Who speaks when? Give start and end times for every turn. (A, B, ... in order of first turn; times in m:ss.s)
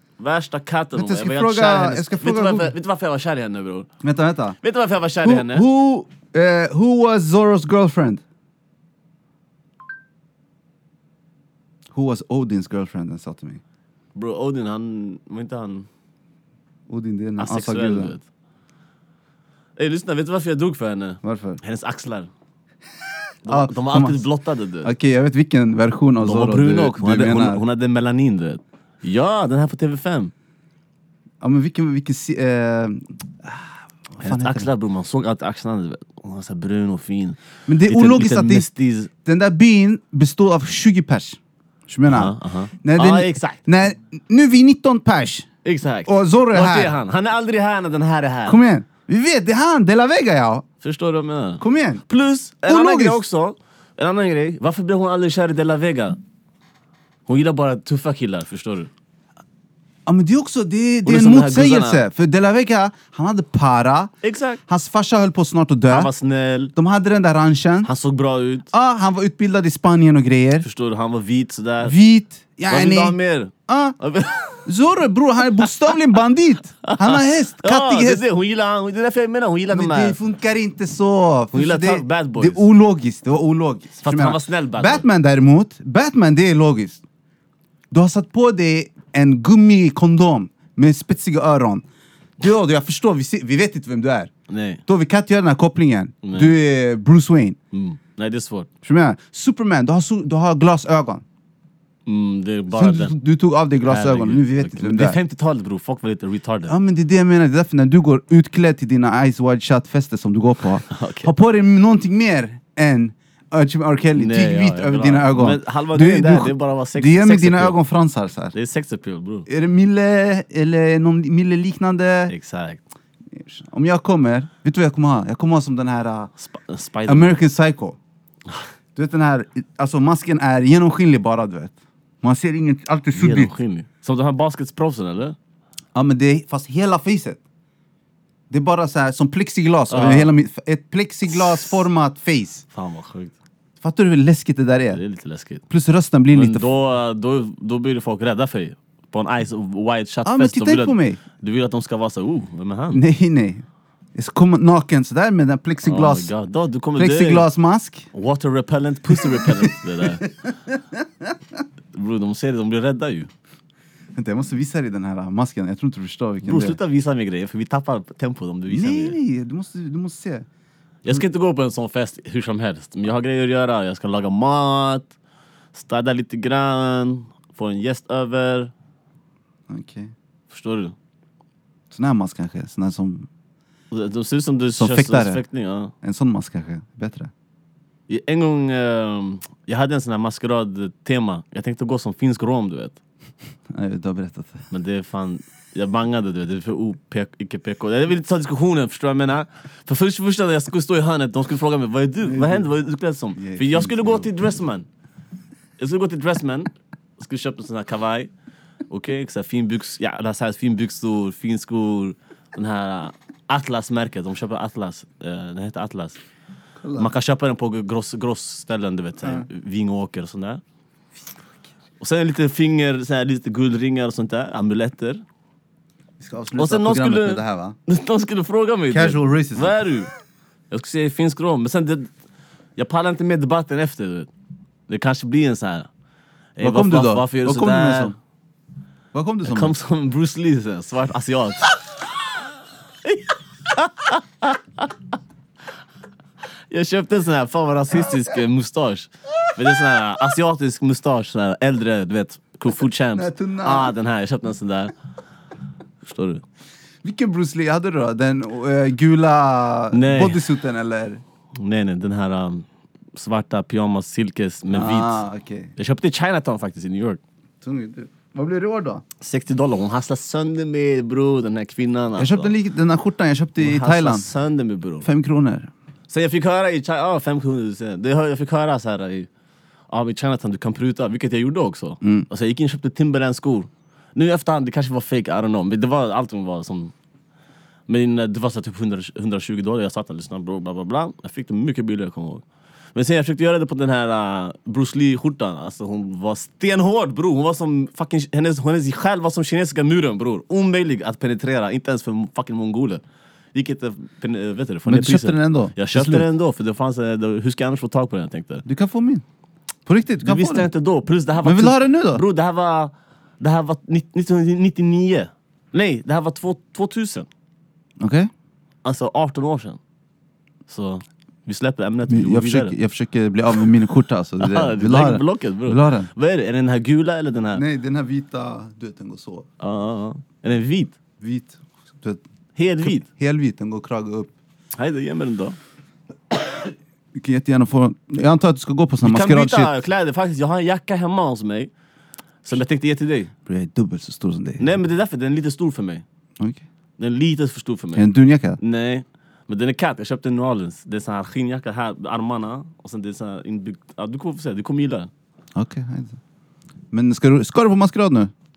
0:00.2-0:03.9 A
0:00.9-0:02.7 B
0:04.0-0:04.6 B
0:04.6-0:05.6 A
0:05.2-0:08.2 B
0:11.9-0:13.6 B
0:14.1-0:15.9 A
0:16.9-0:18.1 B
0:17.4-0:18.2 A
0:19.8-0:22.3 A
0:21.2-0:21.6 B
0:23.4-0:24.9 A
0:23.4-0:24.2 B
0:24.8-0:27.6 B
0:26.2-0:30.3 A
0:31.4-0:34.7 B
0:34.2-0:39.1 A
0:37.7-0:38.7 B
0:39.2-0:45.5 B
0:42.1-0:43.6 A
0:45.6-0:48.6 A
0:46.0-0:46.9 B
0:48.5-0:50.6 B
0:50.8-0:56.2 A
0:51.6-0:52.0 B
0:52.7-0:53.2 B
0:57.3-0:58.9 A
1:00.0-1:04.1 B
1:01.0-1:02.0 A
1:04.2-1:04.6 A
1:04.7-1:06.1 B
1:05.9-1:06.7 A
1:06.7-1:07.9 B
1:07.8-1:08.7 A
1:08.7-1:10.6 B
1:10.6-1:11.9 A
1:11.8-1:13.2 B
1:12.7-1:14.6 A
1:13.7-1:14.0 B
1:14.6-1:18.2 B
1:16.8-1:20.2 A
1:19.7-1:27.0 B
1:21.5-1:22.6 A
1:24.0-1:25.0 A
1:27.9-1:31.8 B
1:32.4-1:34.3 B
1:34.5-1:34.8 A
1:34.9-1:37.6 B
1:36.2-1:36.5 A
1:37.7-1:38.7 A
1:38.8-1:41.2 B
1:42.0-1:43.1 A
1:42.7-1:45.2 B
1:43.8-1:46.7 A
1:46.7-1:58.5 B
1:50.9-1:51.3 A
1:54.1-1:57.8 A
1:58.5-1:59.5 A
1:59.5-2:02.3 B
2:02.3-2:02.8 A
2:03.3-2:06.3 B
2:06.4-2:07.4 A
2:07.1-2:08.0 B
2:08.9-2:13.5 B
2:13.1-2:15.4 A
2:15.9-2:17.4 B
2:18.5-2:22.6 B
2:19.9-2:20.3 A
2:22.7-2:23.3 A
2:23.8-2:25.0 B
2:24.9-2:25.6 A
2:25.7-2:26.7 B
2:26.3-2:33.0 A
2:30.2-2:31.2 B
2:32.9-2:33.6 B
2:34.1-2:36.3 B
2:35.8-2:37.5 A
2:37.0-2:38.1 B
2:38.1-2:40.2 A
2:39.1-2:41.3 B
2:41.9-2:43.3 A
2:44.1-2:46.8 B
2:46.4-2:49.2 A
2:48.7-2:50.5 B
2:51.0-2:55.1 A
2:55.7-2:58.7 A
2:59.7-3:00.1 B
3:00.5-3:00.9 A
3:01.9-3:03.3 B
3:03.9-3:05.9 A
3:04.8-3:05.4 B
3:06.0-3:07.3 B
3:08.1-3:13.0 A
3:13.7-3:14.6 B
3:14.7-3:24.8 A
3:22.2-3:22.7 B
3:23.4-3:24.3 B
3:25.8-3:28.3 A
3:28.9-3:36.2 A
3:36.8-3:37.1 B
3:37.0-3:40.6 A
3:42.0-3:45.2 A
3:46.2-3:47.8 B
3:46.6-3:50.1 A
3:48.9-3:49.8 B
3:50.7-3:52.1 A
3:52.8-3:54.3 A
3:54.9-3:55.9 A
3:56.6-3:58.1 A
3:56.6-3:58.2 B
3:59.1-3:59.7 B
3:59.4-4:01.7 A
4:03.0-4:04.9 A
4:06.7-4:14.9 A
4:13.1-4:13.9 B
4:16.0-4:16.4 A
4:17.0-4:21.2 B
4:19.9-4:20.4 A
4:21.6-4:25.2 A
4:24.7-4:25.7 B
4:25.8-4:27.2 A
4:27.6-4:29.0 B
4:29.2-4:32.5 A
4:32.2-4:34.3 B
4:33.6-4:35.1 A
4:35.0-4:35.7 B
4:36.1-4:39.3 A
4:39.9-4:46.9 A
4:42.0-4:42.3 B
4:47.9-4:52.4 A
4:52.9-5:03.0 A
5:03.5-5:08.6 A
5:04.8-5:06.3 B
5:08.6-5:09.2 B
5:09.8-5:10.7 B
5:10.2-5:17.3 A
5:11.4-5:12.2 B
5:18.0-5:18.3 B
5:18.8-5:19.8 A
5:20.7-5:22.7 A
5:22.1-5:26.1 B
5:24.4-5:27.6 A
5:27.5-5:29.4 B
5:29.6-5:31.0 A
5:31.2-5:32.2 B
5:32.6-5:33.1 A
5:32.8-5:34.3 B
5:34.8-5:35.6 A
5:37.1-5:39.7 B
5:39.0-5:41.7 A
5:42.4-5:43.3 A
5:43.4-5:44.8 B
5:44.6-5:46.0 A
5:47.0-5:55.1 A
5:47.9-5:48.6 B
5:55.5-5:56.2 B
5:56.9-5:58.3 B